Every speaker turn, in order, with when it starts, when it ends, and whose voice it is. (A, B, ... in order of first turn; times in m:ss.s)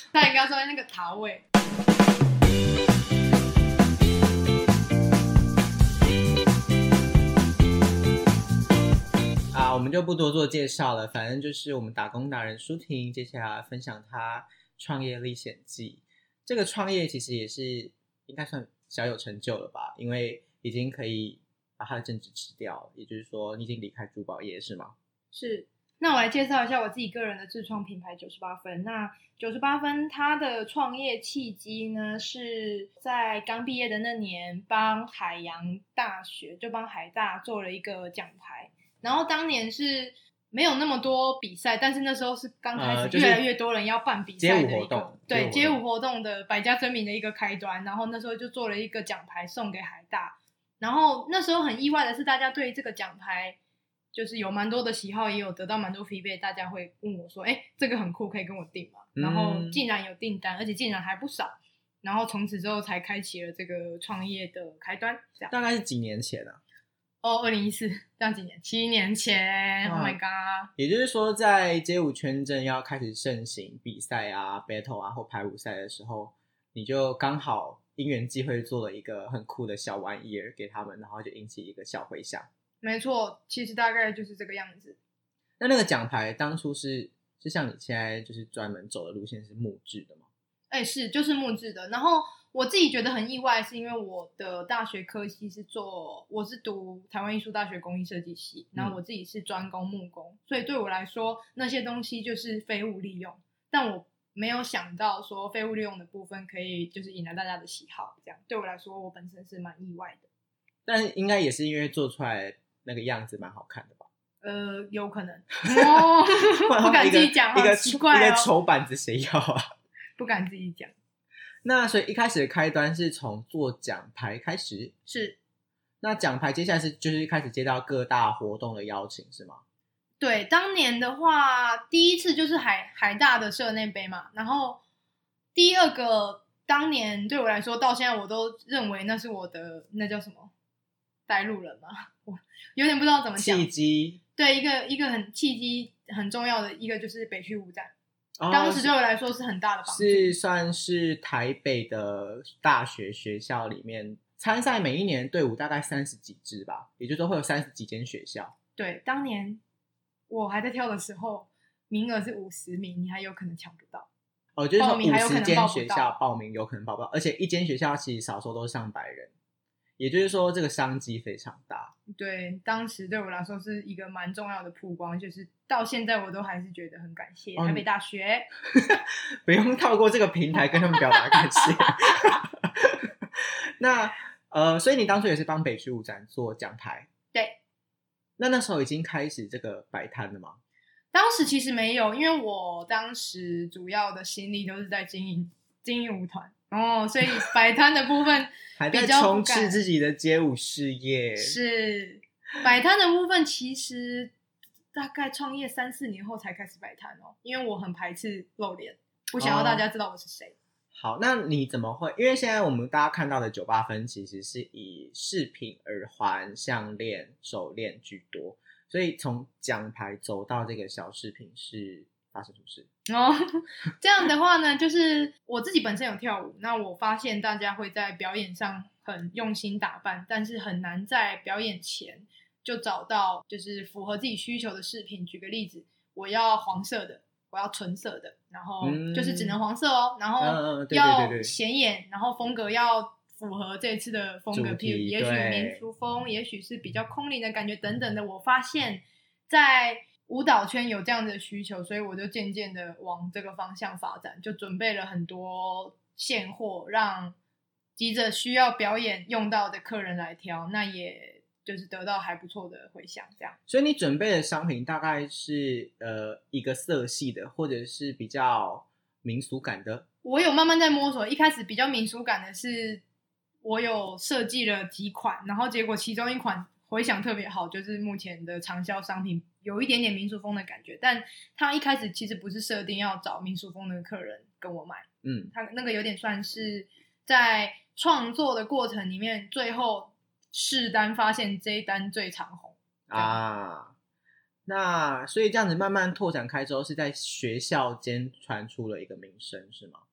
0:00.1-0:01.4 A
0:09.5-0:24.9 B
0:25.3-0:53.6 A
0:42.8-0:43.4 B
0:44.4-0:45.8 B
0:54.1-1:05.5 A
0:59.2-0:59.8 B
1:05.5-1:06.6 B
1:07.2-1:10.7 A
1:09.8-1:10.2 B
1:10.8-1:22.5 B
1:22.8-1:25.0 A
1:25.6-1:30.2 B
1:30.7-1:50.2 A
1:50.8-1:54.1 B
1:54.4-1:58.5 A
1:55.7-1:59.6 B
2:00.2-2:00.9 A
2:01.6-2:04.9 B
2:05.1-2:05.4 A
2:06.0-2:09.6 B
2:10.2-2:14.8 A
2:15.5-2:20.5 A
2:21.3-2:23.7 A
2:23.4-2:24.2 B
2:24.4-2:27.9 A
2:28.4-2:28.9 B
2:28.5-2:30.3 A
2:29.9-2:38.5 B
2:38.8-2:39.6 A
2:40.3-2:44.1 A
2:44.6-2:49.3 B
2:44.8-2:46.2 A
2:50.0-2:51.9 B
2:52.1-2:58.5 A
2:57.6-2:57.8 B
2:58.7-3:07.1 B
3:00.9-3:01.6 A
3:08.4-3:10.6 B
3:11.1-3:19.8 A
3:18.8-3:21.6 B
3:21.4-3:24.3 A
3:24.9-3:30.5 A
3:29.4-3:29.8 B
3:30.9-3:42.9 B
3:43.1-4:17.4 A
3:58.8-3:59.6 B
4:00.4-4:01.5 B
4:04.5-4:05.8 B
4:18.0-4:23.6 A
4:23.7-4:30.0 B
4:30.2-4:33.0 A
4:33.6-4:53.4 A
4:45.2-4:45.5 B
4:53.1-4:53.9 B
4:54.7-5:00.0 B